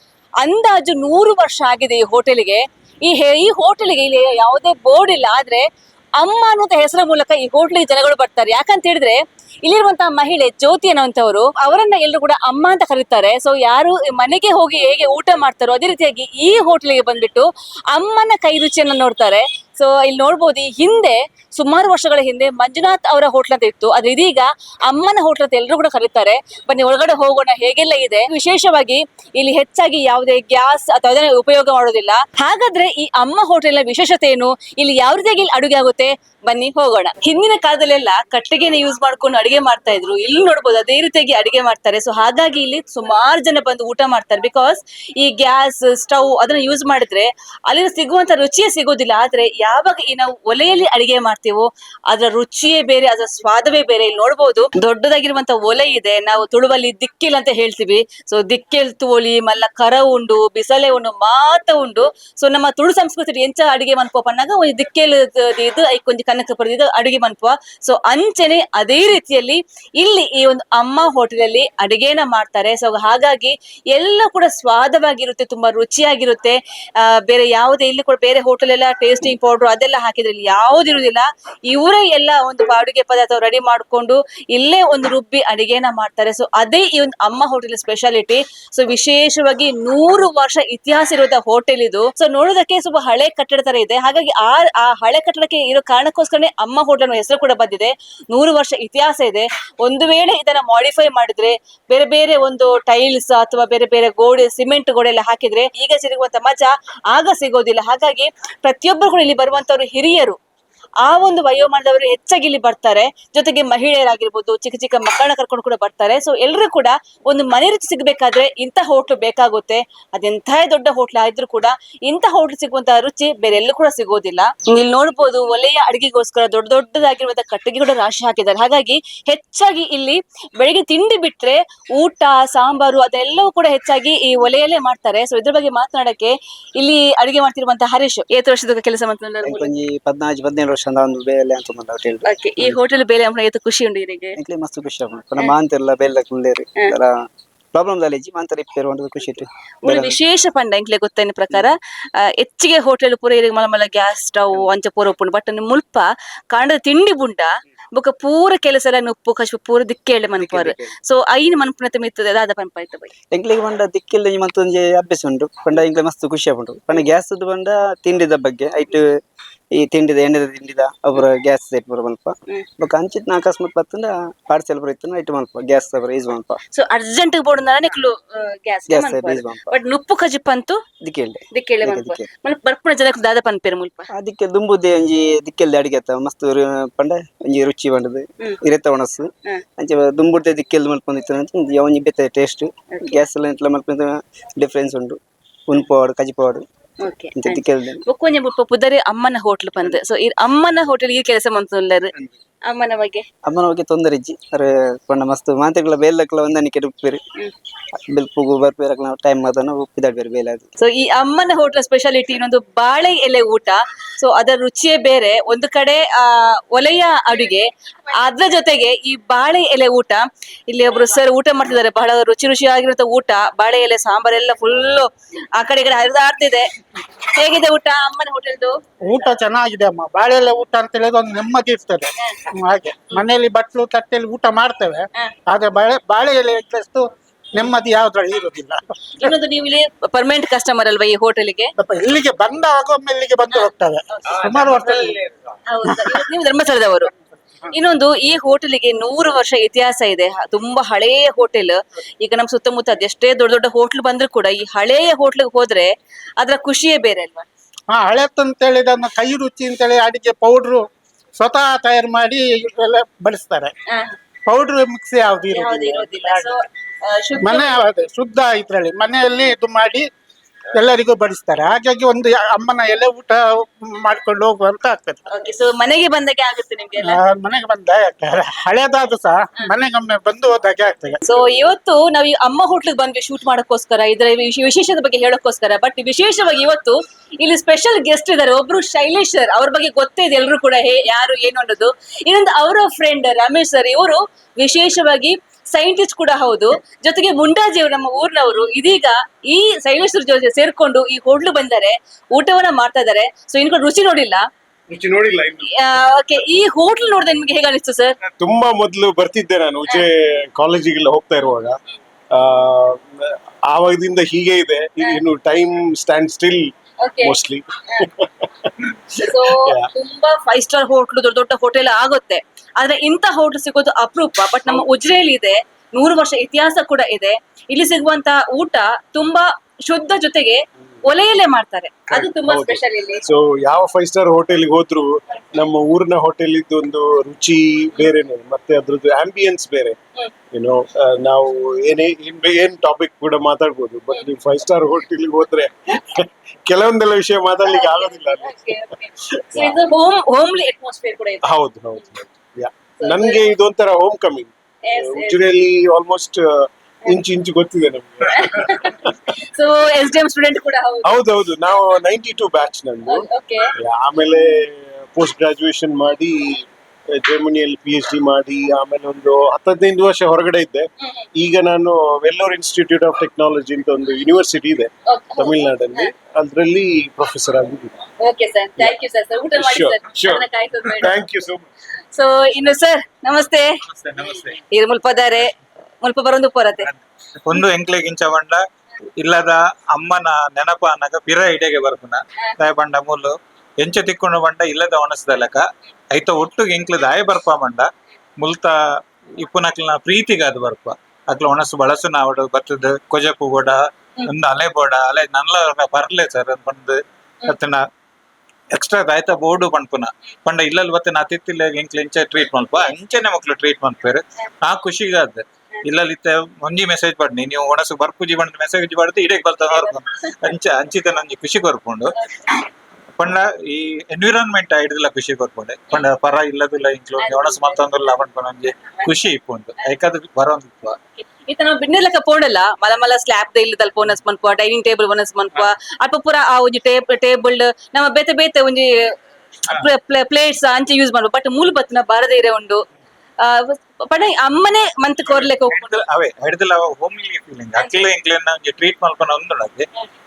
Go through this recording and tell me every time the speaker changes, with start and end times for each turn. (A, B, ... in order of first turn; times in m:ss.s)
0:00.4-0:05.6 A
0:06.2-1:50.4 A
1:51.0-2:19.7 A
2:19.4-2:22.8 B
2:22.3-2:24.4 A
2:24.4-2:27.2 B
2:27.7-2:30.2 B
2:29.8-2:43.1 A
2:40.4-2:40.9 B
2:43.3-2:49.1 B
2:49.7-2:56.6 B
2:56.7-3:00.8 A
2:58.9-2:59.6 B
3:01.0-3:02.3 B
3:01.6-3:04.1 A
3:04.1-3:16.7 B
3:13.0-3:13.2 A
3:17.0-3:22.1 A
3:17.4-3:18.0 B
3:22.7-3:23.2 A
3:23.5-3:27.2 B
3:28.1-3:30.6 B
3:30.8-3:46.7 A
3:47.4-3:48.8 A
3:49.0-3:59.3 C
3:59.2-4:01.7 A
4:01.8-4:05.2 C
4:04.5-4:05.0 D
4:05.7-4:07.1 A
4:07.7-4:17.5 A
4:17.9-4:20.8 C
4:21.4-4:23.7 C
4:24.5-4:26.5 C
4:25.5-4:27.8 A
4:27.4-4:30.1 C
4:30.7-4:35.2 C
4:35.3-4:37.2 A
4:37.0-4:41.2 C
4:41.3-5:04.4 A
5:04.9-5:05.7 E
5:05.7-5:08.2 A
5:08.4-5:11.8 E
5:12.3-5:16.7 E
5:17.0-5:17.4 A
5:17.2-5:18.3 E
5:18.8-5:19.9 E
5:19.2-5:33.2 A
5:32.1-5:40.0 E
5:40.5-5:48.8 E
5:47.6-5:51.4 A
5:49.5-5:49.8 E
5:51.4-5:59.1 E
5:53.0-5:53.4 A
5:54.9-5:55.4 A
5:58.4-6:01.2 A
6:01.0-6:03.2 E
6:03.1-6:03.7 A
6:03.8-6:06.6 E
6:07.2-6:18.0 E
6:15.1-6:16.1 A
6:18.2-6:21.1 A
6:19.6-6:21.7 E
6:22.1-6:23.7 A
6:24.0-6:24.5 D
6:24.6-6:25.4 A
6:26.0-6:26.9 A
6:26.9-6:28.6 D
6:29.2-6:38.7 D
6:39.4-6:47.8 D
6:48.8-7:02.1 D
6:59.7-7:00.0 A
7:02.2-7:02.6 A
7:03.2-7:11.0 D
7:07.2-7:07.8 A
7:11.5-7:18.9 A
7:19.7-7:22.8 A
7:23.4-7:26.0 A
7:25.3-7:29.9 D
7:27.8-7:28.1 A